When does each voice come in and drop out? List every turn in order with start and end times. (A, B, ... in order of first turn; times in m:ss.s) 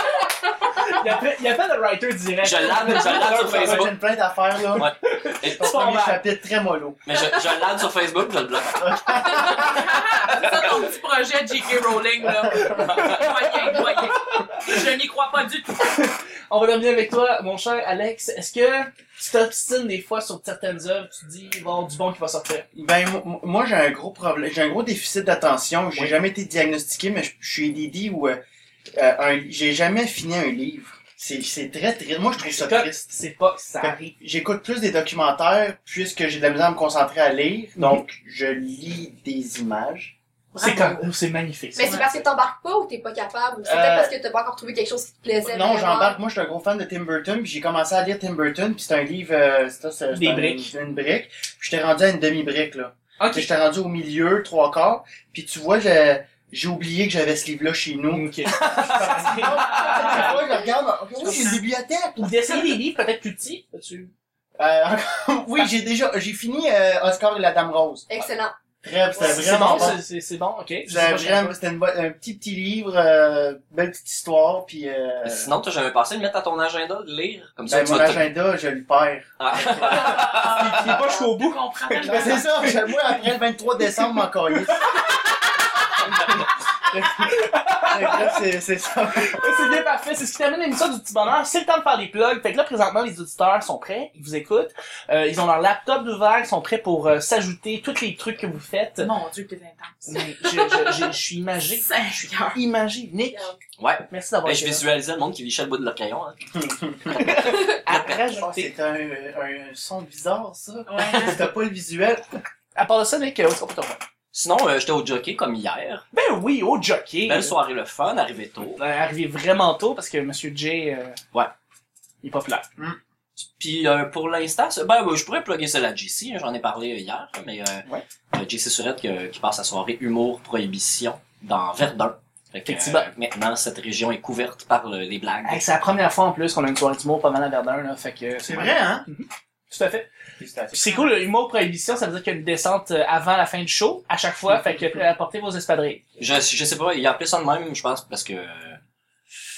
0:00.7-0:03.9 A
0:02.4-0:04.0 B
0:03.0-0:04.9 C
0:04.8-0:05.8 B
0:05.1-0:06.2 A
0:05.4-0:07.0 C
0:07.1-0:10.8 B
0:08.8-0:09.9 C
0:09.4-0:16.0 D
0:12.6-0:13.3 A
0:12.8-0:13.5 B
0:14.1-0:14.8 A
0:15.8-0:22.7 A
0:22.7-0:28.4 C
0:29.0-0:33.1 C
0:32.4-0:34.1 A
0:33.8-0:40.2 C
0:37.8-0:38.0 A
0:40.5-0:41.1 D
0:40.6-0:42.2 A
0:41.8-0:46.2 E
0:43.6-0:44.1 C
0:45.4-1:02.8 C
0:50.1-0:50.7 A
0:53.2-0:53.5 A
0:58.1-1:00.4 A
0:58.5-1:00.0 B
0:59.8-1:00.7 E
1:01.2-1:01.6 A
1:02.2-1:04.1 A
1:04.6-1:08.1 C
1:08.1-1:08.6 E
1:08.8-1:10.0 C
1:09.1-1:10.0 E
1:09.2-1:11.6 A
1:10.9-1:15.5 C
1:15.2-1:18.3 B
1:17.7-1:20.1 C
1:19.4-1:20.9 B
1:19.8-1:23.4 A
1:20.1-1:22.7 D
1:22.0-1:25.0 C
1:24.0-1:25.0 A
1:26.9-1:29.5 C
1:27.2-1:28.4 A
1:29.2-1:39.1 A
1:39.0-1:41.1 D
1:40.1-1:43.5 A
1:41.6-1:42.6 D
1:43.3-1:43.6 E
1:43.8-1:46.4 B
1:44.1-1:44.8 A
1:46.6-1:47.1 C
1:47.1-1:48.7 A
1:48.2-1:52.2 C
1:50.9-1:51.4 D
1:52.8-1:54.0 A
1:54.3-1:56.0 B
1:56.1-1:57.6 A
1:57.3-1:58.8 B
1:58.8-2:01.2 A
2:02.2-2:02.7 A
2:03.6-2:15.6 B
2:12.7-2:13.1 A
2:15.4-2:20.1 A
2:18.4-2:19.1 C
2:20.4-2:20.7 C
2:20.7-2:26.1 A
2:20.8-2:21.1 D
2:26.2-2:28.8 B